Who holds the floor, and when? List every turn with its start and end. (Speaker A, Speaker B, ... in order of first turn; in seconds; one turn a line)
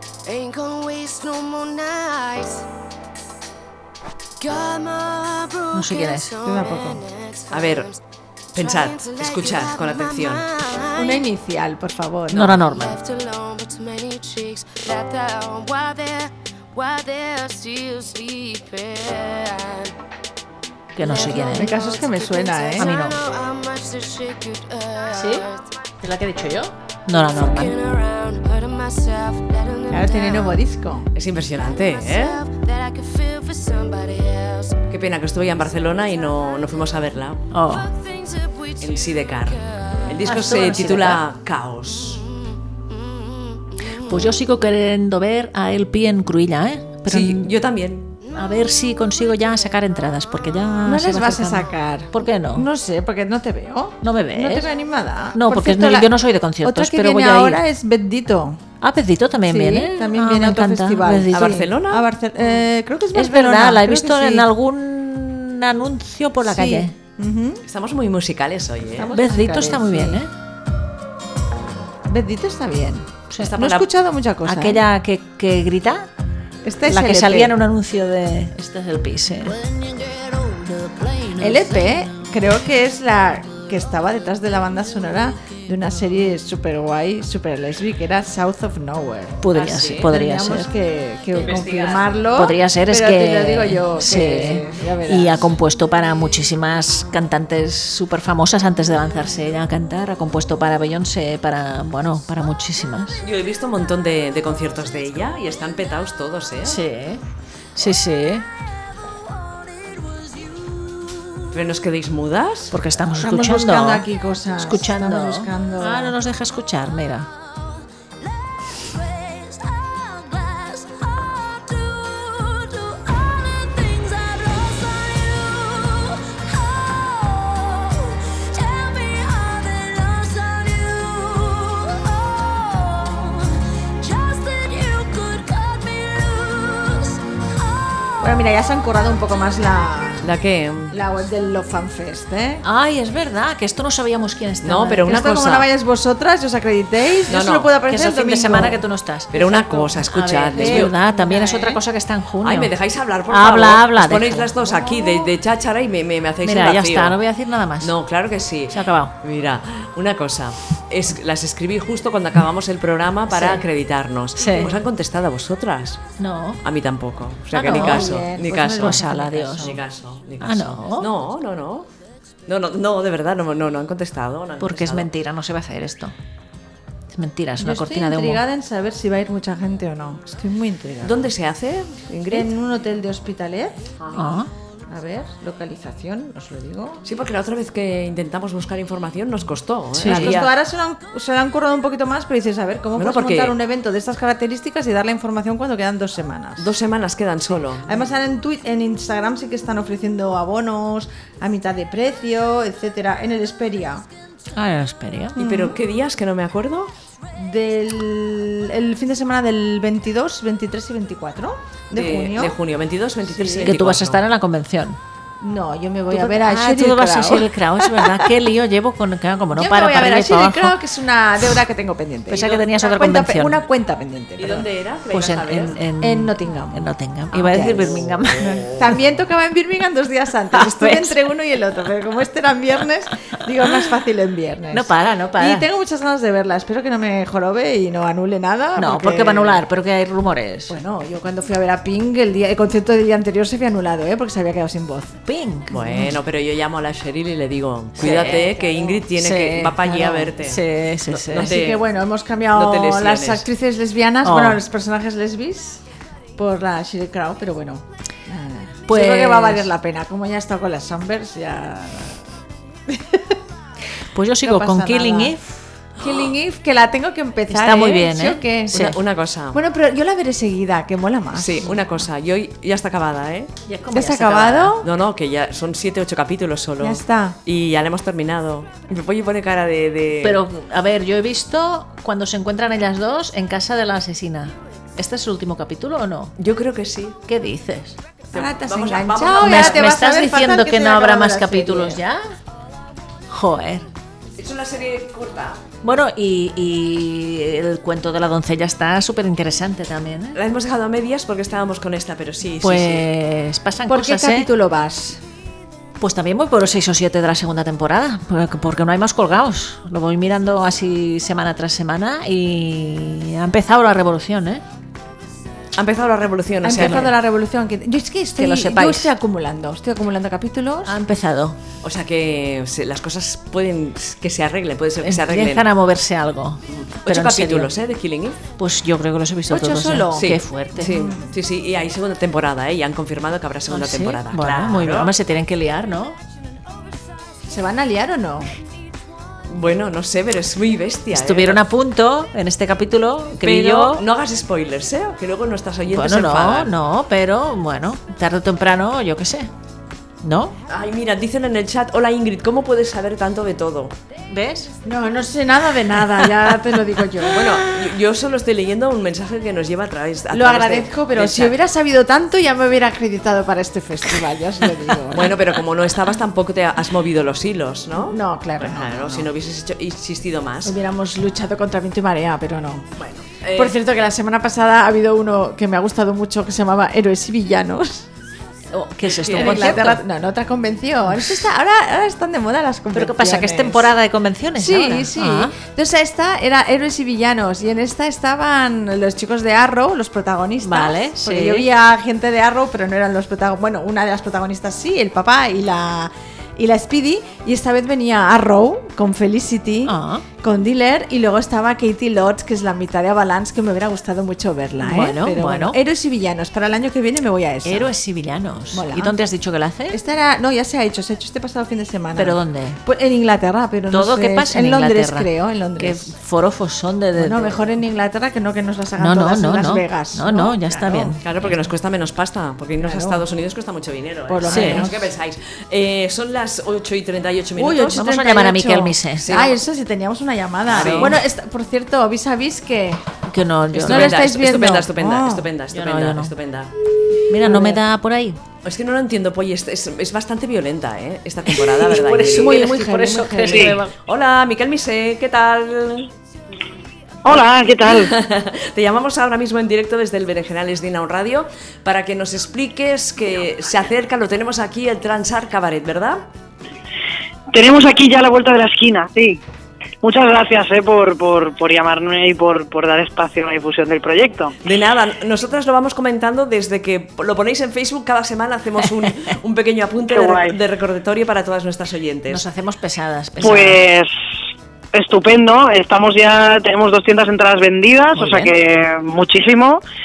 Speaker A: 0.3-2.6
Speaker A: 4.4-5.7
Speaker B: 5.7-6.3
Speaker A: 6.3-8.0
Speaker C: 6.4-7.0
Speaker D: 7.5-7.9
Speaker D: 8.5-10.5
Speaker A: 8.6-10.9
Speaker C: 10.9-12.6
Speaker B: 12.3-13.0
Speaker A: 12.9-19.9
Speaker B: 20.9-21.7
Speaker C: 21.5-22.9
Speaker B: 22.8-23.2
Speaker A: 22.8-25.4
Speaker B: 25.1-25.4
Speaker B: 26.0-27.8
Speaker A: 27.5-30.3
Speaker C: 29.9-31.1
Speaker D: 31.1-32.4
Speaker A: 32.1-34.7
Speaker D: 34.9-37.5
Speaker B: 37.5-37.9
Speaker A: 38.2-38.7
Speaker D: 38.8-42.2
Speaker B: 40.2-41.2
Speaker B: 44.0-47.5
Speaker D: 47.0-48.1
Speaker B: 48.3-52.7
Speaker C: 50.8-58.6
Speaker B: 54.0-54.7
Speaker B: 55.3-57.6
Speaker B: 58.8-61.6
Speaker C: 59.4-64.5
Speaker D: 61.3-62.1
Speaker B: 63.1-66.9
Speaker C: 66.5-67.6
Speaker D: 67.6-69.1
Speaker C: 69.0-70.2
Speaker B: 69.1-70.3
Speaker C: 72.1-74.8
Speaker D: 73.4-73.9
Speaker B: 74.4-76.1
Speaker C: 76.6-77.5
Speaker B: 76.8-79.6
Speaker C: 81.3-95.5
Speaker B: 89.4-90.7
Speaker D: 89.5-90.1
Speaker D: 91.3-92.2
Speaker B: 92.3-103.2
Speaker D: 103.2-106.8
Speaker B: 106.6-107.2
Speaker B: 107.8-108.5
Speaker D: 111.5-112.8
Speaker B: 112.7-117.3
Speaker C: 113.2-116.1
Speaker B: 119.4-127.9
Speaker B: 128.5-132.1
Speaker B: 132.7-133.3
Speaker B: 134.0-136.9
Speaker C: 138.2-140.3
Speaker D: 140.2-140.9
Speaker C: 140.9-142.6
Speaker B: 142.6-145.2
Speaker D: 144.6-145.7
Speaker C: 145.1-148.8
Speaker D: 147.3-147.7
Speaker B: 147.9-152.7
Speaker D: 149.3-150.9
Speaker C: 150.6-151.8
Speaker D: 152.4-157.2
Speaker B: 153.3-154.6
Speaker C: 154.6-155.2
Speaker B: 156.4-157.9
Speaker D: 157.8-166.0
Speaker B: 158.7-159.1
Speaker B: 163.3-163.6
Speaker B: 164.4-164.8
Speaker B: 166.2-166.6
Speaker D: 166.6-171.9
Speaker B: 167.5-168.2
Speaker C: 167.6-169.8
Speaker B: 168.7-169.8
Speaker B: 170.4-171.1
Speaker D: 172.5-175.1
Speaker B: 174.6-176.1
Speaker B: 177.1-178.4
Speaker C: 177.6-181.3
Speaker D: 181.0-182.5
Speaker C: 182.2-183.8
Speaker D: 184.0-184.3
Speaker B: 184.1-184.5
Speaker C: 184.9-187.0
Speaker D: 187.0-190.5
Speaker B: 189.9-190.4
Speaker C: 190.0-196.7
Speaker D: 192.9-193.6
Speaker D: 196.6-198.0
Speaker C: 197.8-204.0
Speaker B: 204.6-205.4
Speaker C: 205.4-205.8
Speaker D: 205.4-206.9
Speaker C: 207.3-212.6
Speaker D: 211.9-214.2
Speaker C: 213.4-213.7
Speaker B: 213.5-215.0
Speaker C: 215.4-218.3
Speaker B: 216.1-220.8
Speaker C: 219.5-224.7
Speaker B: 222.3-223.6
Speaker D: 224.4-225.8
Speaker B: 225.1-228.6
Speaker C: 226.0-239.6
Speaker D: 228.4-228.8
Speaker B: 230.5-231.2
Speaker B: 234.7-235.7
Speaker B: 238.8-240.8
Speaker C: 240.7-245.2
Speaker B: 245.2-246.2
Speaker D: 245.7-251.8
Speaker B: 248.0-248.6
Speaker C: 248.0-249.0
Speaker B: 249.1-251.6
Speaker C: 251.4-255.8
Speaker D: 252.5-253.4
Speaker B: 254.2-254.6
Speaker C: 256.4-262.2
Speaker B: 258.9-259.7
Speaker C: 262.9-263.4
Speaker B: 264.1-265.7
Speaker C: 264.4-265.3
Speaker C: 266.0-268.9
Speaker B: 267.5-269.0
Speaker D: 268.7-269.6
Speaker C: 269.5-271.8
Speaker D: 271.3-273.5
Speaker B: 273.6-274.8
Speaker C: 273.9-274.9
Speaker D: 274.8-280.4
Speaker C: 276.8-277.4
Speaker B: 280.2-286.3
Speaker D: 286.4-287.2
Speaker B: 287.3-288.0
Speaker C: 288.3-292.0
Speaker D: 288.3-290.0
Speaker B: 289.4-292.3
Speaker B: 293.3-293.9
Speaker D: 294.4-295.6
Speaker B: 295.8-300.4
Speaker D: 300.3-303.1
Speaker B: 302.6-304.5
Speaker C: 303.9-305.2
Speaker B: 306.0-314.6
Speaker D: 315.7-317.1
Speaker C: 316.6-320.9
Speaker B: 316.7-317.1
Speaker B: 318.4-319.1
Speaker B: 320.8-321.6
Speaker D: 321.8-325.7
Speaker B: 325.0-327.7
Speaker D: 326.7-328.4
Speaker B: 328.6-331.0
Speaker C: 329.5-331.3
Speaker D: 330.1-335.1
Speaker B: 333.7-336.2
Speaker C: 337.5-338.5
Speaker D: 339.5-341.6
Speaker B: 341.1-344.0
Speaker D: 343.4-346.7
Speaker B: 345.9-349.5
Speaker B: 350.2-350.6
Speaker D: 350.7-353.9
Speaker B: 354.3-354.7
Speaker C: 354.8-357.7
Speaker D: 357.3-361.6
Speaker C: 360.3-365.4
Speaker D: 365.1-370.7
Speaker C: 368.0-369.3
Speaker C: 370.6-373.0
Speaker D: 373.0-373.7
Speaker C: 373.6-378.1
Speaker B: 378.7-380.0
Speaker D: 379.1-379.8
Speaker C: 379.3-383.9
Speaker B: 381.1-381.4
Speaker B: 382.9-385.5
Speaker C: 384.5-407.9
Speaker B: 390.6-391.7
Speaker B: 399.8-400.2
Speaker B: 404.8-405.8
Speaker B: 407.6-410.0
Speaker C: 408.7-409.2
Speaker C: 409.9-416.1
Speaker B: 412.1-412.8
Speaker B: 413.9-417.7
Speaker C: 417.2-421.2
Speaker B: 419.0-421.5
Speaker D: 421.2-428.0
Speaker C: 422.8-423.2
Speaker C: 424.3-425.1
Speaker B: 424.4-424.9
Speaker C: 427.6-433.1
Speaker B: 427.9-429.4
Speaker D: 429.2-429.6
Speaker D: 430.7-431.2
Speaker B: 430.7-431.2
Speaker B: 433.3-434.3
Speaker D: 433.7-436.7
Speaker C: 433.8-435.5
Speaker B: 435.7-436.3
Speaker B: 437.3-438.4
Speaker C: 437.4-437.8
Speaker D: 438.6-442.7
Speaker B: 441.5-443.9
Speaker C: 442.3-443.8
Speaker D: 443.5-446.1
Speaker E: 447.2-448.1
Speaker D: 447.8-456.2
Speaker E: 457.5-459.4
Speaker E: 460.0-464.6
Speaker D: 464.6-472.4
Speaker E: 470.1-470.6
Speaker B: 472.3-473.8
Speaker E: 473.4-474.1
Speaker E: 474.9-479.8
Speaker B: 478.1-478.5